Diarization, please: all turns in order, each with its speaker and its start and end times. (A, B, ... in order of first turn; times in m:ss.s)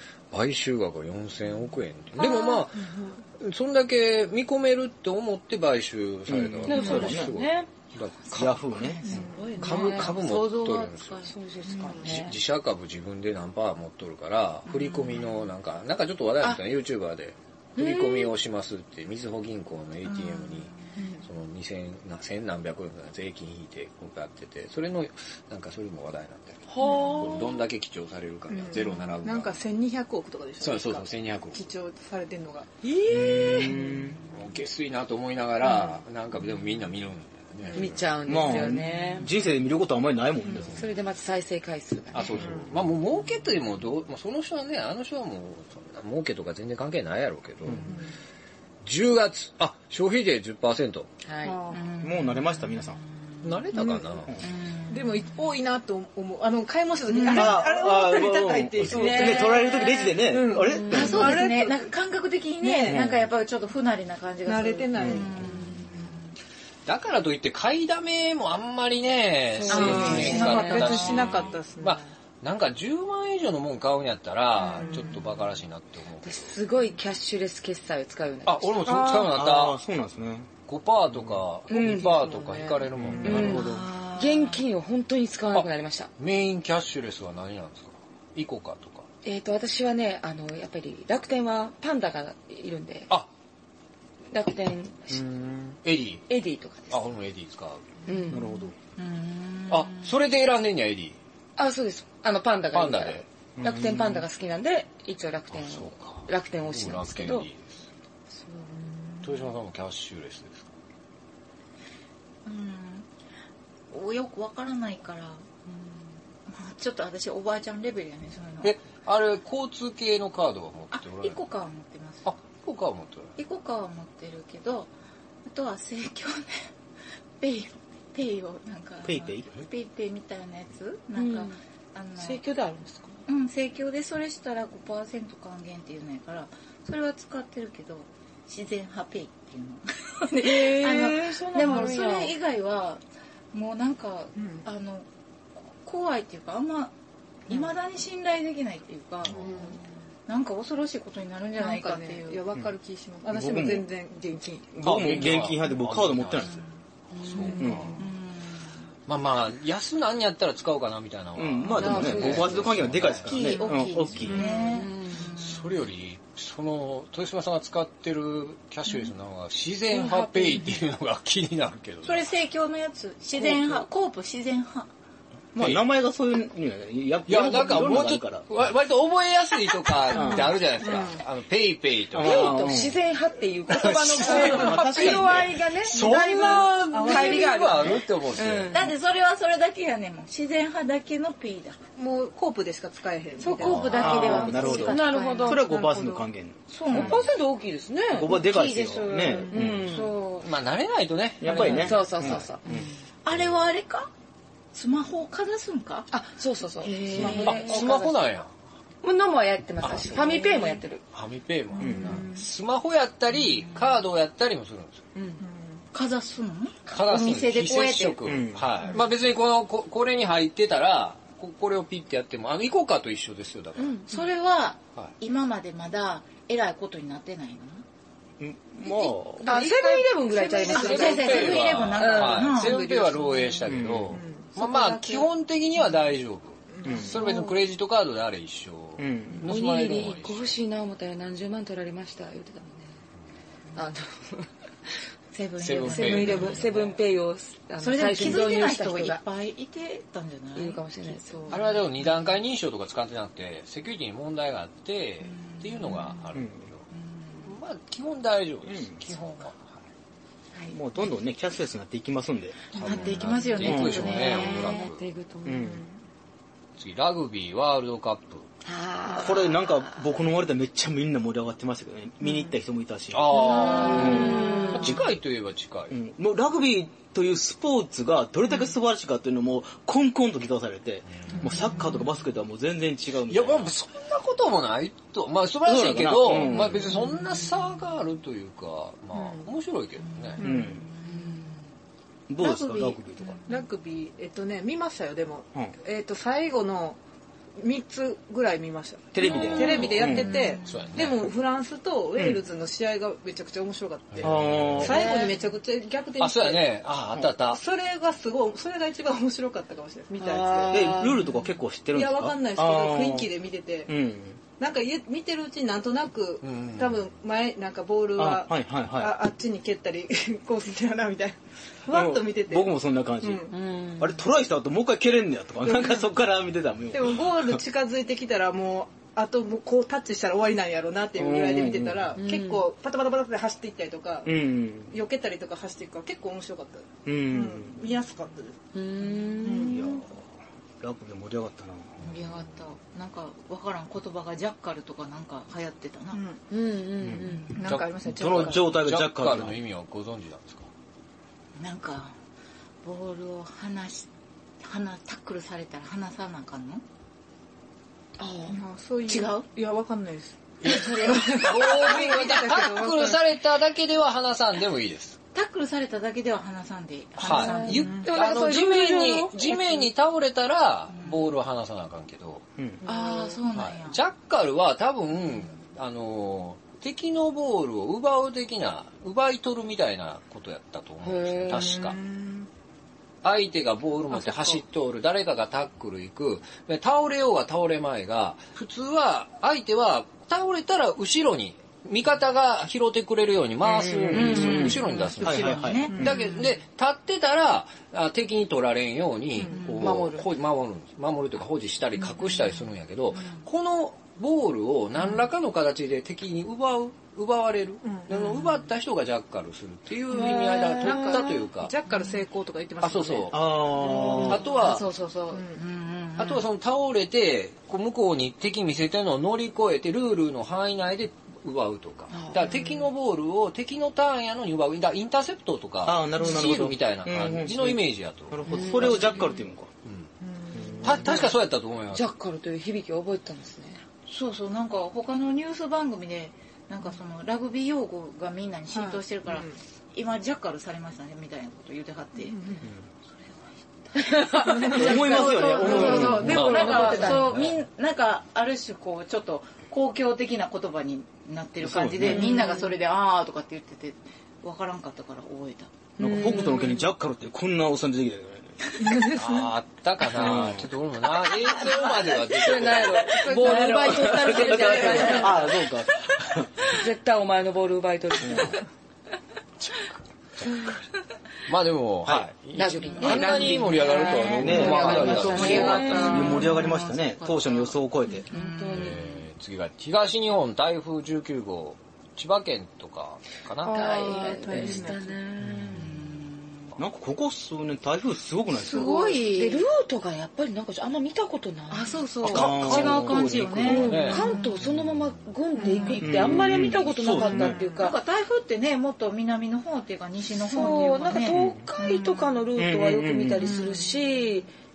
0:00.3-0:08.6 A
0:02.2-0:03.2 B
0:06.3-0:07.3 C
0:06.7-0:07.7 D
0:08.3-0:09.0 C
0:08.7-0:11.3 E
0:09.0-0:09.7 B
0:09.6-0:11.2 A
0:09.6-0:10.2 D
0:11.3-0:12.4 D
0:11.7-0:12.2 B
0:12.0-0:20.7 A
0:14.7-0:15.5 E
0:17.8-0:18.3 D
0:20.0-0:20.8 E
0:21.0-0:21.2 B
0:21.2-0:29.6 A
0:26.7-0:27.6 D
0:26.8-0:27.4 B
0:28.5-0:32.7 B
0:30.6-0:31.6 A
0:32.8-0:34.0 D
0:33.1-0:34.2 C
0:34.3-0:38.0 A
0:37.7-0:39.3 D
0:38.2-0:40.9 C
0:40.8-0:42.5 D
0:42.1-0:47.9 A
0:47.9-0:48.1 B
0:48.8-0:51.1 A
0:51.2-0:51.6 D
0:51.4-0:51.9 B
0:51.7-0:53.0 E
0:52.0-0:53.0 C
0:53.4-0:54.4 A
0:54.4-0:55.3 E
0:54.9-1:01.9 B
0:57.1-0:57.6 E
0:57.3-1:01.4 C
0:58.9-1:01.3 D
1:00.9-1:06.2 E
1:02.6-1:03.0 B
1:02.9-1:03.2 C
1:04.5-1:05.6 B
1:05.0-1:05.3 C
1:06.9-1:16.6 A
1:09.6-1:11.2 D
1:09.7-1:11.4 E
1:09.7-1:12.1 B
1:14.6-1:15.2 B
1:16.2-1:18.8 D
1:18.4-1:19.8 A
1:18.9-1:19.3 B
1:18.9-1:20.5 C
1:20.7-1:23.9 A
1:21.7-1:26.1 D
1:23.0-1:23.6 C
1:23.3-1:24.6 E
1:25.5-1:29.1 A
1:29.2-1:33.1 D
1:34.3-1:35.3 D
1:35.1-1:35.7 C
1:35.8-1:36.2 A
1:36.3-1:37.0 D
1:36.9-1:37.9 A
1:38.1-1:38.7 D
1:38.3-1:38.8 C
1:39.0-1:40.1 E
1:39.7-1:41.2 A
1:41.6-1:47.5 D
1:42.7-1:43.3 A
1:43.6-1:44.2 C
1:45.5-1:47.8 A
1:49.2-1:50.7 A
1:52.4-1:53.1 E
1:53.9-1:55.6 E
1:56.5-1:58.8 E
1:58.6-2:01.4 A
2:00.9-2:02.3 E
2:02.2-2:03.3 A
2:03.4-2:04.9 E
2:05.4-2:06.7 E
2:07.4-2:12.4 E
2:09.0-2:09.5 C
2:11.1-2:11.6 D
2:12.2-2:13.2 D
2:13.3-2:25.1 E
2:20.4-2:22.4 D
2:24.4-2:24.7 B
2:25.6-2:26.9 E
2:27.5-2:29.7 E
2:29.4-2:29.8 B
2:30.3-2:32.4 E
2:31.6-2:34.8 B
2:33.3-2:33.9 C
2:34.7-2:36.6 C
2:34.8-2:36.6 A
2:37.1-2:38.0 D
2:37.2-2:38.0 A
2:37.6-2:38.0 C
2:38.0-2:38.7 E
2:39.1-2:43.6 A
2:41.4-2:44.6 C
2:41.8-2:42.7 D
2:43.0-2:45.8 E
2:44.2-2:44.5 A
2:44.4-2:45.3 D
2:45.2-2:52.3 A
2:49.9-2:50.6 D
2:52.0-2:54.9 E
2:55.5-2:58.5 C
2:57.3-3:02.7 A
3:00.1-3:01.2 B
3:00.2-3:00.5 D
3:02.1-3:03.0 C
3:02.2-3:08.9 D
3:03.7-3:06.2 C
3:04.2-3:08.8 A
3:06.4-3:07.8 B
3:08.7-3:11.8 E
3:12.0-3:14.9 B
3:13.4-3:15.6 E
3:13.6-3:14.4 A
3:13.9-3:15.6 D
3:13.9-3:17.2 C
3:15.4-3:16.3 B
3:16.7-3:17.2 E
3:16.9-3:20.1 D
3:18.1-3:20.0 C
3:19.3-3:19.8 B
3:19.8-3:20.5 E
3:20.4-3:22.5 A
3:21.4-3:22.9 C
3:21.4-3:22.9 D
3:23.2-3:24.1 E
3:24.7-3:26.1 E
3:26.1-3:28.2 D
3:26.8-3:27.8 E
3:27.2-3:27.6 B
3:27.4-3:28.5 A
3:29.0-3:31.0 D
3:29.8-3:30.3 A
3:30.3-3:30.8 E
3:31.1-3:35.1 A
3:31.8-3:32.2 C
3:31.8-3:32.5 B
3:33.6-3:33.9 E
3:35.2-3:35.4 D
3:35.4-3:35.8 B
3:35.9-3:38.2 E
3:36.9-3:44.0 A
3:38.3-3:38.7 C
3:43.8-3:44.1 D
3:44.1-3:47.8 E
3:48.4-3:49.5 C
3:48.8-3:49.1 E
3:49.4-3:52.5 D
3:49.5-3:51.3 B
3:50.7-3:52.8 E
3:50.9-4:00.6 A
3:52.5-3:55.3 B
3:53.7-3:54.2 C
3:56.7-3:57.5 B
3:56.8-3:57.2 C
3:59.0-3:59.5 C
3:59.5-4:02.9 D
4:03.8-4:04.5 D
4:05.3-4:06.8 E
4:05.6-4:07.0 A
4:05.8-4:09.2 D
4:07.8-4:11.8 E
4:10.6-4:11.6 D
4:11.5-4:16.8 A
4:15.2-4:16.4 E
4:16.3-4:16.6 C
4:16.9-4:17.6 E
4:17.4-4:19.8 A
4:18.7-4:19.0 C
4:20.7-4:24.1 C
4:22.7-4:24.8 E
4:22.7-4:25.0 A
4:23.7-4:25.9 D
4:25.4-4:25.8 C
4:26.8-4:28.5 A
4:28.6-4:30.0 D
4:29.1-4:35.1 C
4:33.1-4:36.0 A
4:33.3-4:35.0 D
4:35.9-4:43.7 C
4:43.3-4:50.4 A
4:45.7-4:47.1 C
4:49.1-4:49.5 B
4:50.1-4:51.6 E
4:50.4-4:50.8 B
4:50.4-4:50.8 C
4:52.3-4:53.4 C
4:52.4-4:53.6 E
4:53.5-4:57.0 B
4:57.6-5:06.8 B
4:59.1-5:00.5 C
4:59.2-5:00.9 E
5:00.6-5:01.2 A
5:04.1-5:05.0 A
5:04.2-5:05.2 C
5:05.0-5:05.3 D
5:06.2-5:07.6 A
5:07.5-5:11.1 B
5:10.2-5:11.4 D
5:10.7-5:13.3 C
5:11.9-5:13.9 B
5:13.9-5:14.4 C
5:14.6-5:23.5 B
5:16.4-5:17.0 A
5:18.2-5:19.2 C
5:21.9-5:27.6 C
5:23.5-5:24.2 D
5:25.6-5:26.1 B
5:26.9-5:34.4 B
5:31.2-5:32.2 C
5:32.2-5:32.7 D
5:34.3-5:35.0 C
5:34.9-5:38.6 B
5:37.1-5:37.8 C
5:38.7-5:40.0 D
5:39.4-5:39.9 B
5:39.6-5:40.2 C
5:40.8-5:42.0 C
5:42.0-5:42.5 A
5:42.0-5:46.2 E
5:46.1-5:46.4 B
5:46.5-5:47.6 D
5:47.0-5:47.4 C
5:47.5-5:48.6 B
5:47.6-5:48.4 E
5:47.6-5:50.7 A
5:48.1-5:49.6 C
5:51.6-5:52.2 E
5:52.8-5:54.1 E
5:54.6-5:56.8 E
5:58.2-5:58.6 D
5:58.5-6:03.2 B
5:59.1-5:59.5 E
6:00.6-6:05.2 A
6:00.7-6:01.5 E
6:05.3-6:08.0 E
6:07.2-6:12.4 A
6:07.3-6:09.9 D
6:07.7-6:08.1 B
6:10.9-6:11.3 E
6:12.6-6:12.8 C
6:12.8-6:14.0 E
6:12.9-6:13.4 D
6:13.5-6:22.0 A
6:21.0-6:21.8 D
6:21.5-6:22.5 B
6:23.2-6:51.7 A
6:33.7-6:36.1 C
6:33.8-6:35.1 D
6:34.6-6:36.4 E
6:35.9-6:36.3 B
6:39.5-6:39.8 E
6:39.7-6:40.3 D
6:50.1-6:51.3 D
6:50.3-6:53.5 B
6:52.8-6:53.7 A
6:53.3-6:54.4 C
6:53.7-6:56.4 E
6:54.2-6:54.9 A
6:55.3-6:55.6 B
6:56.2-7:09.2 A
7:02.1-7:02.6 D
7:05.8-7:09.7 C
7:08.5-7:09.4 D
7:09.8-7:10.1 A
7:10.2-7:11.0 B
7:10.5-7:11.3 C
7:10.8-7:12.1 A
7:11.0-7:11.2 D
7:11.9-7:13.8 D
7:14.1-7:22.6 E
7:18.7-7:19.6 B
7:22.3-7:22.6 B
7:23.2-7:35.7 E
7:24.0-7:27.4 D
7:24.4-7:25.8 B
7:24.6-7:26.5 C
7:26.1-7:27.6 A
7:31.6-7:32.4 C
7:32.0-7:32.7 D
7:36.0-7:36.9 D
7:36.0-7:38.7 C
7:38.8-7:39.5 B
7:39.1-7:44.9 A
7:40.1-7:40.7 C
7:41.7-7:45.6 D
7:43.2-7:45.5 E
7:43.3-7:45.1 B
7:43.9-7:46.7 C
7:46.7-7:48.6 D
7:48.2-7:48.6 C
7:49.6-7:49.9 A
7:51.5-7:56.2 A
7:52.6-7:56.7 D
7:53.0-7:59.2 E
7:54.4-7:58.3 C
7:58.3-7:59.0 D
7:58.7-8:03.8 A
8:03.6-8:05.2 B
8:03.7-8:06.0 D
8:05.7-8:06.8 E
8:06.8-8:09.0 C
8:08.5-8:09.7 E
8:08.7-8:18.0 D
8:11.7-8:14.9 E
8:12.2-8:14.1 C
8:13.7-8:14.3 A
8:15.6-8:16.0 B
8:15.6-8:22.4 E
8:16.0-8:17.6 C
8:20.4-8:24.5 D
8:21.3-8:21.6 C
8:22.6-8:23.6 C